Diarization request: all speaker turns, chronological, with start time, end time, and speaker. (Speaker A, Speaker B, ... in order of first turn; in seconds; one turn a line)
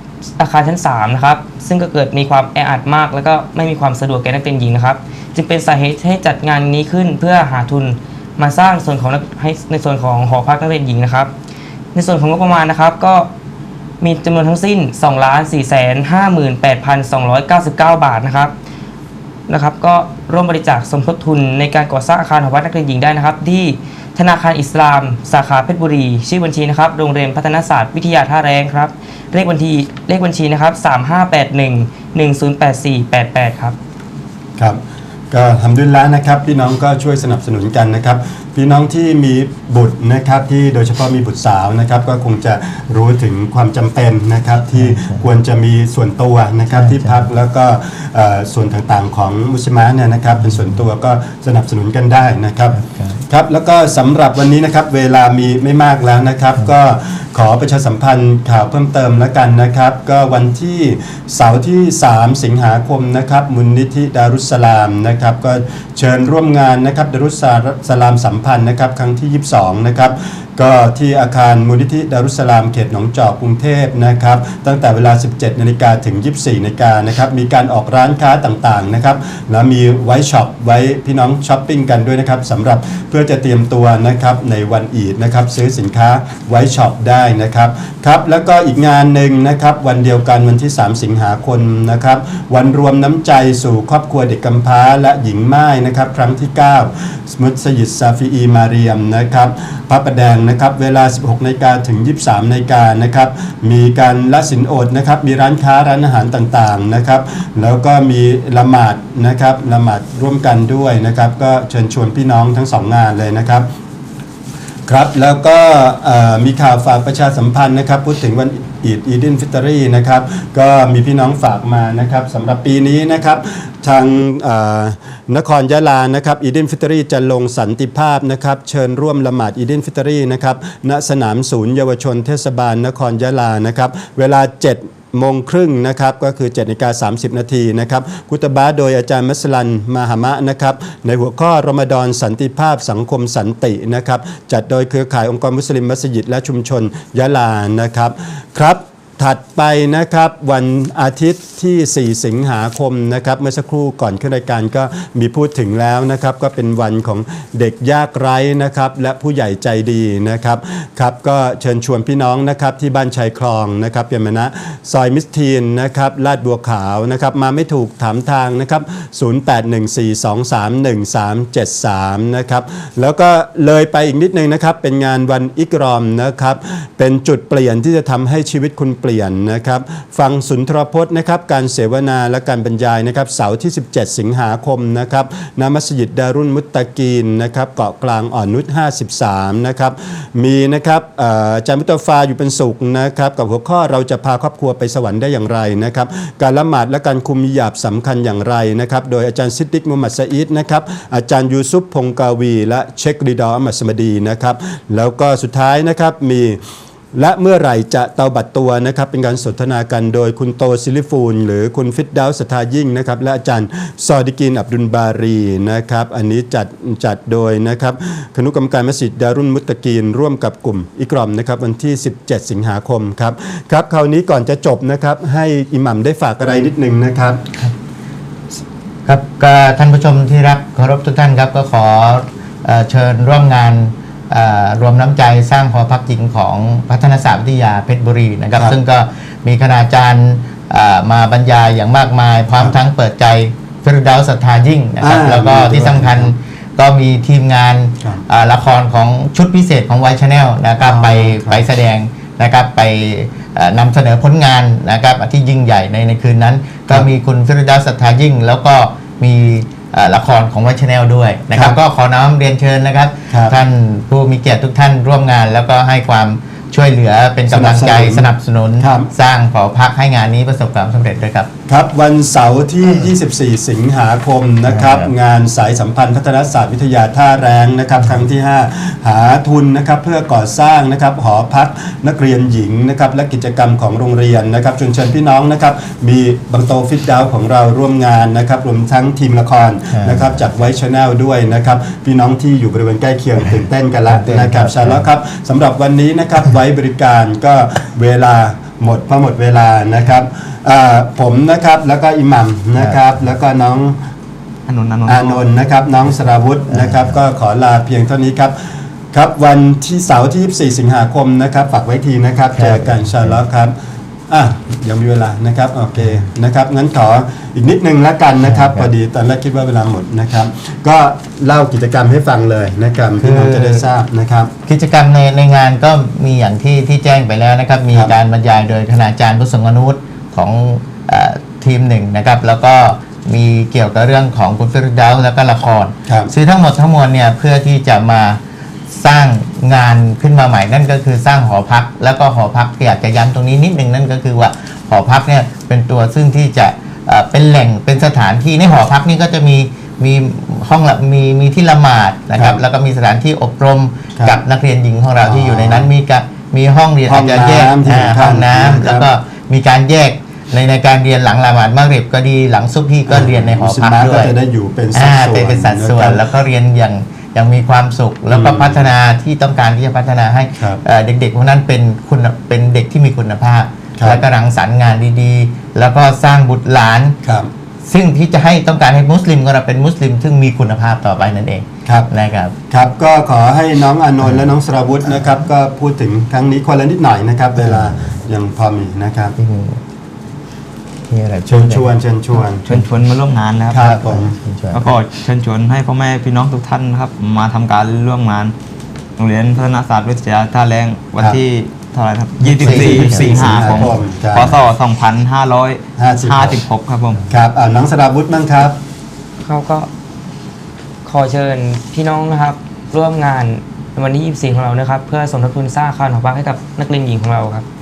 Speaker A: 0.4-11.3
Speaker A: 11.9-13.3
Speaker A: 14.0-18.5
Speaker A: 19.5-33.8
Speaker B: 35.3-113.7
Speaker C: 44.7-45.3
Speaker C: 46.7-47.3
Speaker C: 50.4-50.8
Speaker C: 52.7-53.2
Speaker B: 114.9-206.6
Speaker B: 207.1-227.4
Speaker C: 229.1-271.5
Speaker B: 245.0-246.3
Speaker B: 250.8-251.7
Speaker B: 263.3-263.6
Speaker B: 267.5-269.1
Speaker B: 271.7-304.0
Speaker C: 274.6-275.1
Speaker C: 289.9-290.4
Speaker C: 294.1-295.1
Speaker D: 304.7-305.4
Speaker B: 305.1-308.5
Speaker C: 306.7-307.2
Speaker B: 309.1-313.7
Speaker C: 312.5-313.4
Speaker B: 314.3-324.5
Speaker C: 318.4-318.9
Speaker C: 323.2-323.9
Speaker C: 324.6-364.3
Speaker B: 336.1-336.3
Speaker B: 352.4-352.6
Speaker B: 354.1-354.4
Speaker B: 355.2-355.9
Speaker B: 357.1-359.1
Speaker B: 363.1-366.3
Speaker C: 364.9-377.2
Speaker B: 368.3-368.9
Speaker B: 373.9-374.2
Speaker B: 377.2-377.5
Speaker C: 377.8-382.6
Speaker B: 381.8-382.1
Speaker B: 382.7-389.4
Speaker C: 384.2-384.5
Speaker C: 385.1-385.4
Speaker C: 387.6-388.2
Speaker C: 389.4-389.8
Speaker C: 391.1-392.9
Speaker B: 391.5-392.7
Speaker D: 392.6-393.9
Speaker B: 393.7-394.4
Speaker C: 393.8-394.9
Speaker D: 394.7-398.5
Speaker D: 399.2-407.2
Speaker C: 402.4-404.0
Speaker B: 402.6-404.6
Speaker B: 406.0-406.6
Speaker B: 407.3-408.8
Speaker A: 409.4-409.9
Speaker A: 411.0-417.6